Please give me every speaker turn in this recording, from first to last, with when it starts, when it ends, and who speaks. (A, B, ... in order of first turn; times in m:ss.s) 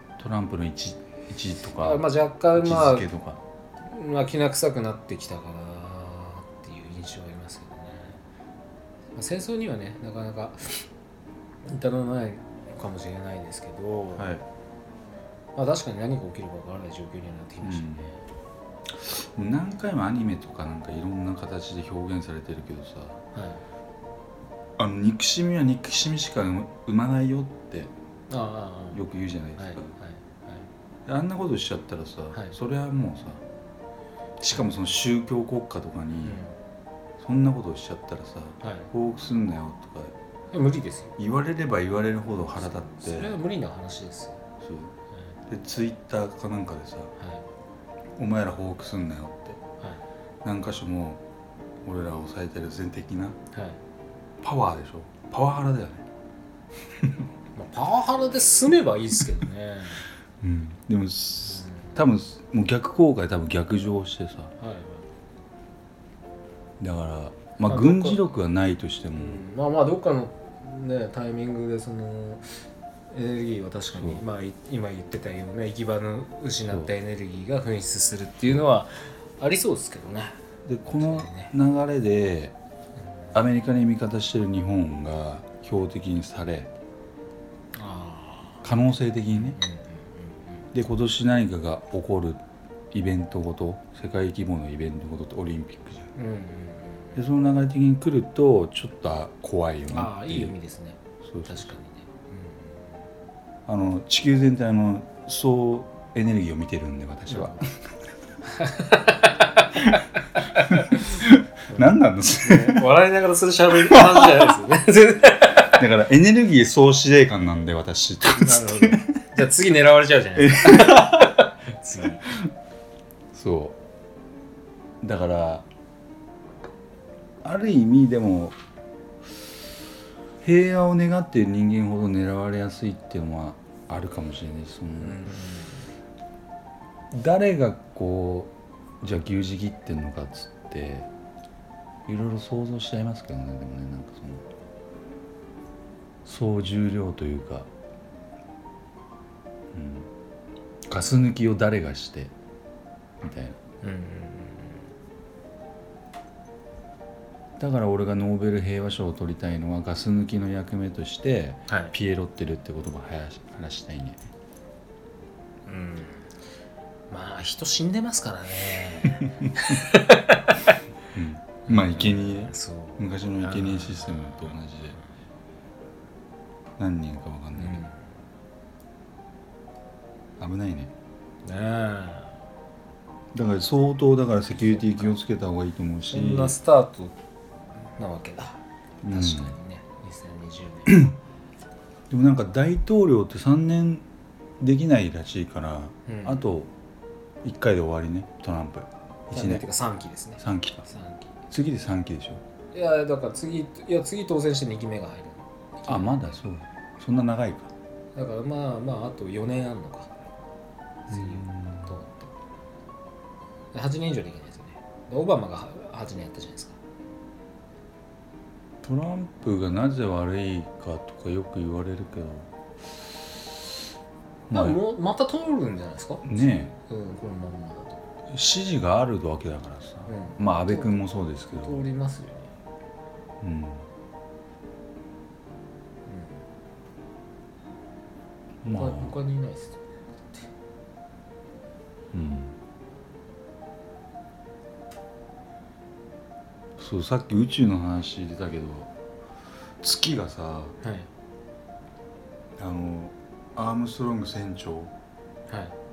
0:00.2-0:03.4 A
0:01.8-0:03.1 B
0:03.9-0:08.2 B
0:09.2-0:10.8 B
0:11.7-0:14.3 B
0:14.2-0:14.4 A
0:15.6-0:18.2 B
0:17.6-0:18.1 A
0:18.9-0:23.2 A
0:23.3-0:23.6 B
0:24.8-0:27.9 A
0:28.3-0:29.0 B
0:28.9-0:29.9 A
0:29.6-0:30.6 B
0:31.1-0:33.4 A
0:34.4-0:36.4 A
0:36.2-0:36.6 B
0:37.2-0:40.2 A
0:38.6-0:38.9 B
0:40.5-0:41.2 B
0:41.2-0:43.4 A
0:42.6-0:44.4 B
0:44.6-0:44.9 A
0:45.5-0:47.1 A
0:47.2-0:47.4 B
0:48.2-0:49.6 A
0:50.4-0:51.2 A
0:51.8-0:53.4 A
0:53.5-0:53.8 B
0:54.4-0:56.0 A
0:57.6-1:00.0 B
1:00.4-1:04.5 A
1:01.5-1:02.0 B
1:04.6-1:05.1 B
1:06.8-1:09.4 A
1:07.6-1:08.2 B
1:09.2-1:12.5 B
1:13.1-1:20.4 B
1:13.9-1:14.2 A
1:20.6-1:22.6 A
1:21.0-1:21.5 B
1:23.3-1:26.7 A
1:27.7-1:28.6 B
1:28.6-1:29.6 A
1:29.4-1:30.7 B
1:30.7-1:36.1 A
1:36.2-1:37.2 B
1:37.2-1:40.6 A
1:39.9-1:42.8 B
1:41.2-1:41.7 A
1:43.7-1:47.8 A
1:47.3-1:47.6 B
1:48.5-1:50.0 B
1:50.6-1:51.2 B
1:50.7-1:52.9 A
1:52.4-1:55.8 B
1:53.9-1:54.5 A
1:55.8-1:59.0 A
1:58.3-2:02.3 B
2:00.4-2:01.5 A
2:03.3-2:03.8 A
2:05.0-2:05.7 A
2:07.4-2:08.6 A
2:10.4-2:15.3 A
2:15.0-2:15.9 B
2:17.1-2:21.1 A
2:22.1-2:24.5 A
2:26.2-2:27.7 A
2:29.7-2:30.1 A
2:30.9-2:32.3 A
2:33.2-2:33.6 A
2:33.8-2:34.8 B
2:37.6-2:44.3 A
2:41.7-2:41.9 B
2:45.7-2:46.3 B
2:47.1-2:50.6 B
2:51.1-2:55.0 A
2:51.7-2:55.1 B
2:56.8-2:57.8 A
2:57.6-2:58.1 B
3:00.4-3:00.9 A
3:01.4-3:02.4 B
3:03.3-3:06.6 A
3:04.6-3:05.2 B
3:06.1-3:07.1 B
3:08.0-3:11.1 B
3:09.0-3:09.6 A
3:10.9-3:11.2 A
3:12.1-3:14.0 A
3:14.6-3:16.7 A
3:16.1-3:16.4 B
3:17.4-3:19.7 A
3:19.3-3:21.3 B
3:20.4-3:20.8 A
3:21.5-3:22.4 A
3:22.7-3:26.3 B
3:25.9-3:27.7 A
3:28.2-3:30.1 B
3:31.1-3:32.3 B
3:31.1-3:32.0 A
3:33.7-3:36.8 B
3:38.8-3:42.5 A
3:44.5-3:44.8 A
3:44.5-3:48.0 B
3:46.2-3:46.7 A
3:48.3-3:51.8 A
3:50.1-3:51.0 B
3:51.6-3:52.5 B
3:53.4-3:53.8 A
3:56.1-3:56.4 B
3:58.6-3:59.2 A
3:58.7-4:00.5 B
4:02.1-4:02.6 A
4:06.8-4:08.9 A
4:09.8-4:10.8 A
4:10.8-4:11.1 B
4:12.6-4:14.9 A
4:15.5-4:15.8 B